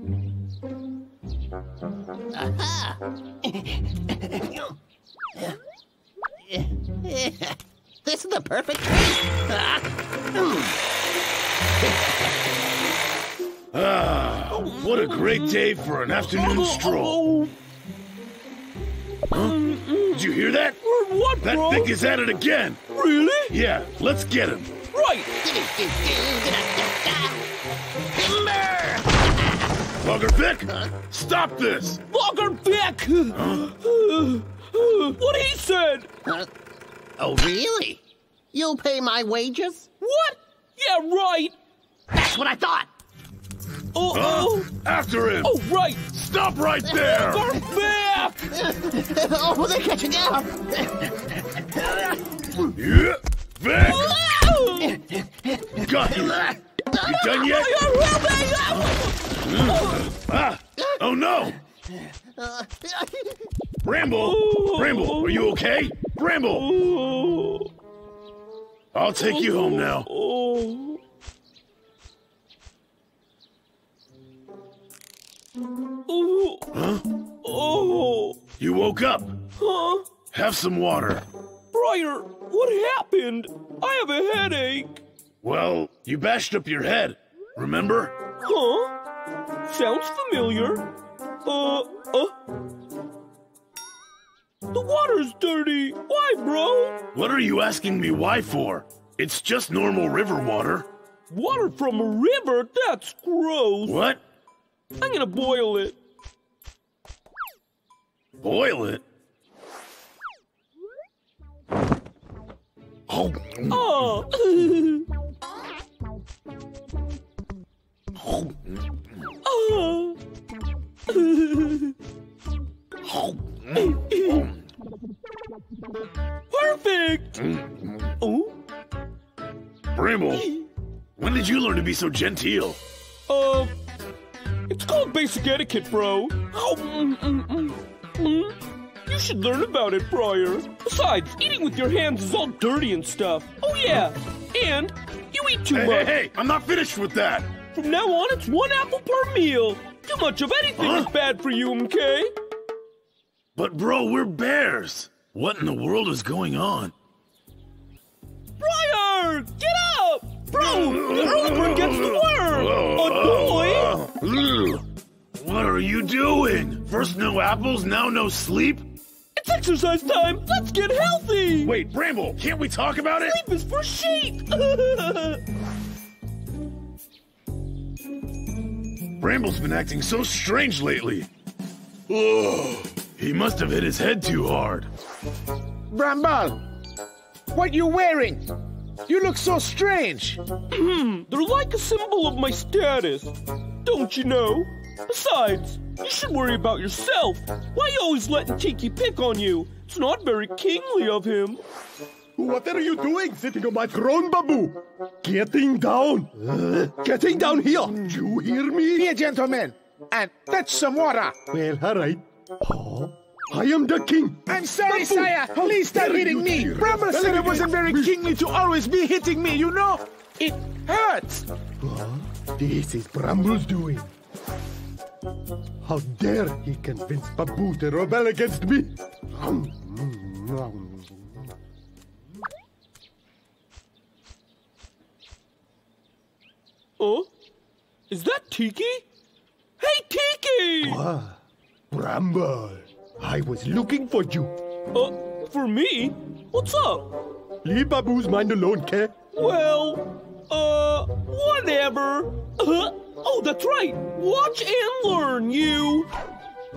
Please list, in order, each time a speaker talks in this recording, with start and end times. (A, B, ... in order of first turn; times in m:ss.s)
0:02.3-0:04.7 A
0:06.5-0:10.8 A
0:11.8-0:12.3 A
0:13.7-0:17.2 B
0:14.5-0:15.7 C
0:16.2-0:17.5 C
0:19.3-0:19.6 B
0:19.3-0:21.9 C
0:20.1-0:20.8 B
0:21.4-0:22.8 B
0:22.9-0:23.6 C
0:23.5-0:24.7 B
0:24.9-0:25.3 C
0:25.4-0:27.5 A
0:28.1-0:29.6 A
0:30.0-0:32.0 B
0:30.7-0:30.9 A
0:32.1-0:36.1 C
0:33.3-0:33.7 B
0:37.2-0:38.0 A
0:38.5-0:39.9 A
0:40.0-0:41.5 C
0:42.1-0:42.9 A
0:43.9-0:44.7 C
0:44.1-0:45.5 B
0:45.4-0:46.0 C
0:46.1-0:47.5 B
0:46.9-0:48.5 C
0:48.5-0:52.7 A
0:52.7-0:54.1 B
0:53.8-0:55.0 C
0:54.8-0:57.4 A
0:55.8-0:57.8 B
0:57.2-1:00.1 C
0:59.4-1:01.6 B
1:00.8-1:03.5 A
1:03.8-1:06.7 B
1:04.1-1:05.5 C
1:06.5-1:07.7 C
1:08.9-1:10.1 B
1:09.2-1:11.0 C
1:16.1-1:16.6 C
1:16.7-1:17.0 B
1:17.4-1:18.4 C
1:18.6-1:19.3 B
1:19.6-1:20.1 C
1:20.3-1:21.2 B
1:21.7-1:25.0 C
1:25.4-1:28.1 B
1:28.4-1:29.0 C
1:29.6-1:30.9 C
1:31.4-1:32.3 C
1:34.7-1:37.0 C
1:37.1-1:40.9 B
1:41.3-1:44.0 C
1:43.8-1:44.2 B
1:45.0-1:46.0 C
1:48.4-1:49.0 B
1:53.1-1:54.0 B
1:53.7-1:55.0 C
1:59.4-2:00.2 C
2:01.1-2:01.9 C
2:03.0-2:04.5 B
2:03.8-2:04.5 C
2:06.5-2:07.3 C
2:07.4-2:08.1 B
2:08.2-2:08.6 C
2:09.9-2:10.5 B
2:11.2-2:12.8 B
2:13.3-2:13.7 C
2:14.7-2:26.1 C
2:25.7-2:27.5 B
2:27.7-2:32.3 C
2:30.8-2:31.1 B
2:33.6-2:36.9 B
2:38.6-2:44.0 C
2:40.5-2:44.8 B
2:45.3-2:48.9 B
2:49.4-2:51.7 C
2:51.6-2:53.4 B
2:53.2-2:55.4 C
2:59.2-3:01.3 B
3:02.1-3:04.9 B
3:05.9-3:06.6 D
3:07.5-3:08.4 D
3:09.0-3:10.4 D
3:10.7-3:13.3 C
3:13.8-3:21.6 C
3:22.4-3:29.1 E
3:28.9-3:31.4 D
3:31.5-3:38.2 E
3:34.5-3:41.5 D
3:41.8-3:44.1 E
3:45.8-3:51.5 E
3:57.0-3:57.3 C
3:58.1-3:59.0 C
3:59.8-4:01.0 C
4:00.8-4:04.6 E
4:04.9-4:07.1 C
4:07.6-4:09.1 E
4:09.3-4:16.1 C